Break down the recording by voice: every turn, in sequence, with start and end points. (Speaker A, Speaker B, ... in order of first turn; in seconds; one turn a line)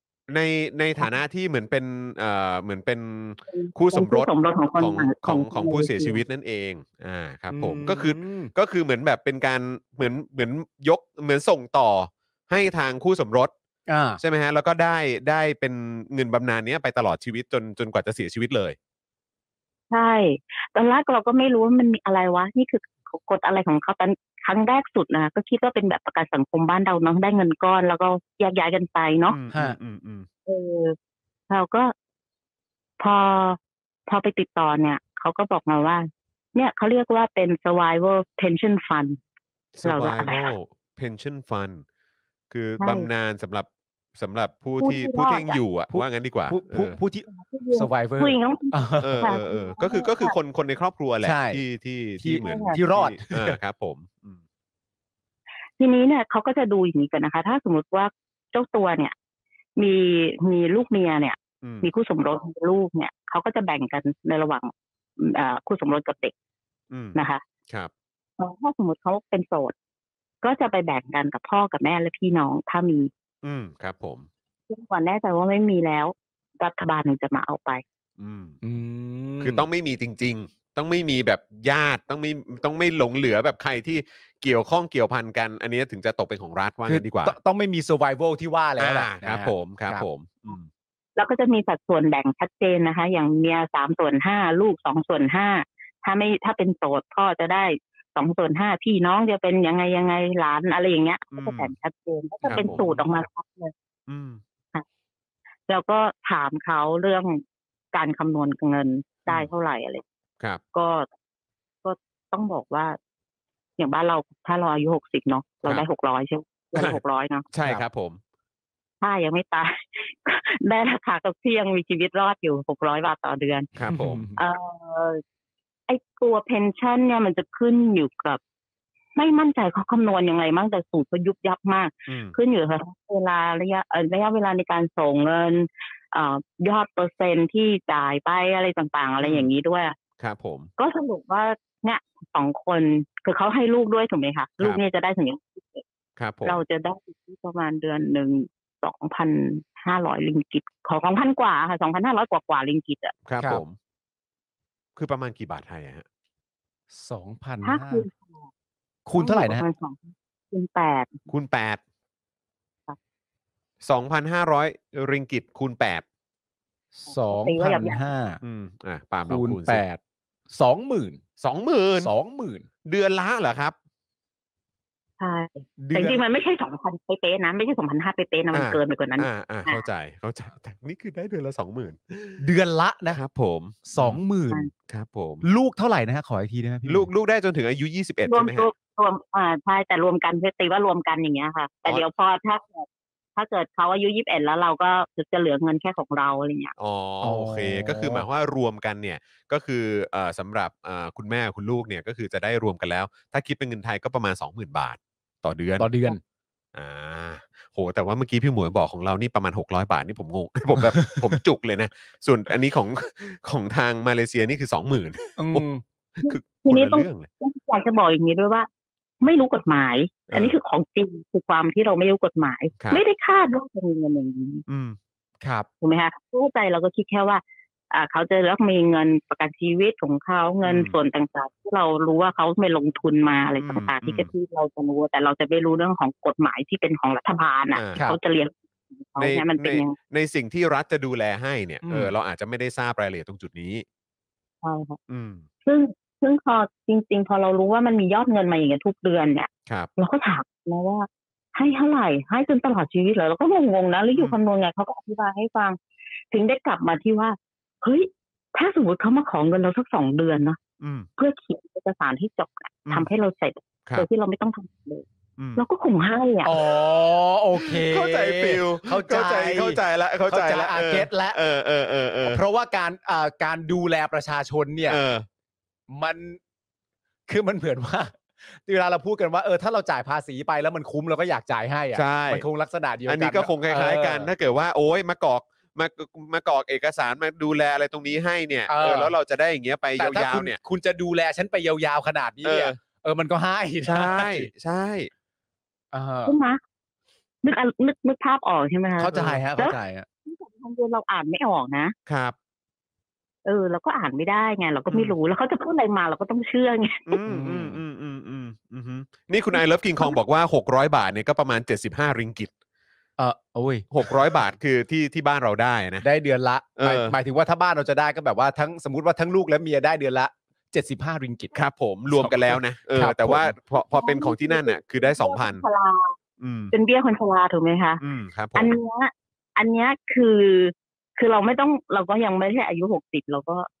Speaker A: 0.3-13.5
Speaker B: 3.5-6.2
Speaker C: 7.5-8.5
Speaker C: 13.9-14.2
Speaker A: 14.2-18.8
Speaker B: 19.9-29.4
Speaker A: 29.3-30.3
Speaker B: 30.4-30.9
Speaker B: 31.5-31.9
Speaker B: 33.0-39.2
Speaker A: 39.7-41.8
Speaker B: 39.8-40.5
Speaker A: 42.5-47.0
Speaker B: 42.8-43.1
Speaker B: 44.8-45.6
Speaker C: 45.9-49.3
Speaker B: 47.3-50.3
Speaker A: 49.0-54.4
Speaker C: 51.2-51.6
Speaker C: 52.2-53.6
Speaker B: 52.4-52.8
Speaker B: 55.8-59.1
Speaker B: 59.8-66.3
Speaker A: 61.6-61.9
Speaker A: 66.9-67.2
Speaker B: 67.1-67.4
Speaker B: 68.4-69.7
Speaker B: 70.4-73.1
Speaker A: 73.4-74.3
Speaker B: 74.7-77.8
Speaker A: 78.2-78.6
Speaker C: 78.6-79.7
Speaker A: 79.4-87.3
Speaker C: 86.9-90.0
Speaker A: 88.8-90.7
Speaker B: 91.2-103.7
Speaker A: 101.3-101.7
Speaker A: 102.4-103.0
Speaker C: 102.5-102.9
Speaker A: 104.1-104.4
Speaker B: 105.7-110.0
Speaker B: 110.7-111.1
Speaker B: 111.8-113.0
Speaker B: 113.8-117.5
Speaker A: 116.7-117.0
Speaker A: 117.5-118.2
Speaker B: 119.0-123.7
Speaker A: 123.8-124.2
Speaker C: 123.9-124.3
Speaker B: 124.3-125.2
Speaker B: 125.9-128.4
Speaker B: 129.2-139.9
Speaker A: 132.1-132.3
Speaker A: 139.2-139.5
Speaker A: 140.2-140.7
Speaker B: 140.8-145.8
Speaker A: 146.2-146.6
Speaker B: 146.4-153.2
Speaker A: 153.2-153.7
Speaker A: 154.9-156.0
Speaker C: 156.9-158.0
Speaker B: 157.6-158.5
Speaker C: 159.1-159.6
Speaker B: 159.2-161.2
Speaker A: 161.3-161.8
Speaker A: 163.8-166.0
Speaker C: 166.9-168.4
Speaker B: 167.1-168.0
Speaker A: 168.4-169.8
Speaker C: 169.3-171.2
Speaker A: 171.4-172.1
Speaker C: 172.0-172.6
Speaker A: 172.8-173.7
Speaker B: 175.2-179.8
Speaker A: 175.8-176.2
Speaker A: 178.5-182.4
Speaker C: 182.4-183.2
Speaker A: 183.1-184.2
Speaker C: 183.8-184.6
Speaker A: 184.9-185.4
Speaker C: 185.4-187.1
Speaker A: 186.8-188.7
Speaker B: 188.3-196.7
Speaker A: 196.8-205.9
Speaker C: 197.2-198.2
Speaker C: 205.8-206.2
Speaker A: 206.7-217.3
Speaker C: 210.8-211.3
Speaker C: 215.4-215.8
Speaker B: 216.3-218.7
Speaker B: 219.2-224.6
Speaker A: 220.3-220.5
Speaker A: 224.7-225.0
Speaker C: 225.4-225.7
Speaker B: 225.8-239.9
Speaker A: 230.6-231.0
Speaker A: 233.6-234.3
Speaker A: 237.7-238.0
Speaker A: 239.2-243.8
Speaker C: 241.8-242.1
Speaker B: 244.6-245.0
Speaker A: 245.1-245.4
Speaker B: 245.6-255.8
Speaker B: 256.3-260.6
Speaker A: 260.8-261.1
Speaker B: 261.2-265.0
Speaker A: 265.4-265.6
Speaker B: 265.6-266.5
Speaker C: 266.4-271.4
Speaker A: 267.6-272.4
Speaker C: 272.2-275.0
Speaker A: 274.9-275.2
Speaker C: 275.9-276.4
Speaker C: 277.3-284.3
Speaker A: 281.9-282.4
Speaker A: 283.1-290.6
Speaker C: 288.7-289.1
Speaker C: 290.0-294.5
Speaker A: 292.4-292.8
Speaker A: 293.9-295.1
Speaker C: 295.9-296.3
Speaker B: 296.2-296.6
Speaker B: 297.4-301.9
Speaker C: 299.0-300.1
Speaker A: 299.1-299.4
Speaker A: 302.1-302.3
Speaker B: 303.4-307.1
Speaker A: 304.9-305.1
Speaker A: 307.1-312.5
Speaker C: 307.2-307.8
Speaker B: 309.5-310.2
Speaker C: 313.2-314.2
Speaker A: 313.9-316.1
Speaker C: 316.0-321.5
Speaker A: 316.8-317.2
Speaker A: 321.5-325.6
Speaker C: 322.1-323.6
Speaker B: 323.8-326.1
Speaker A: 326.4-326.7
Speaker B: 326.7-328.0
Speaker A: 328.0-328.8
Speaker B: 328.6-333.7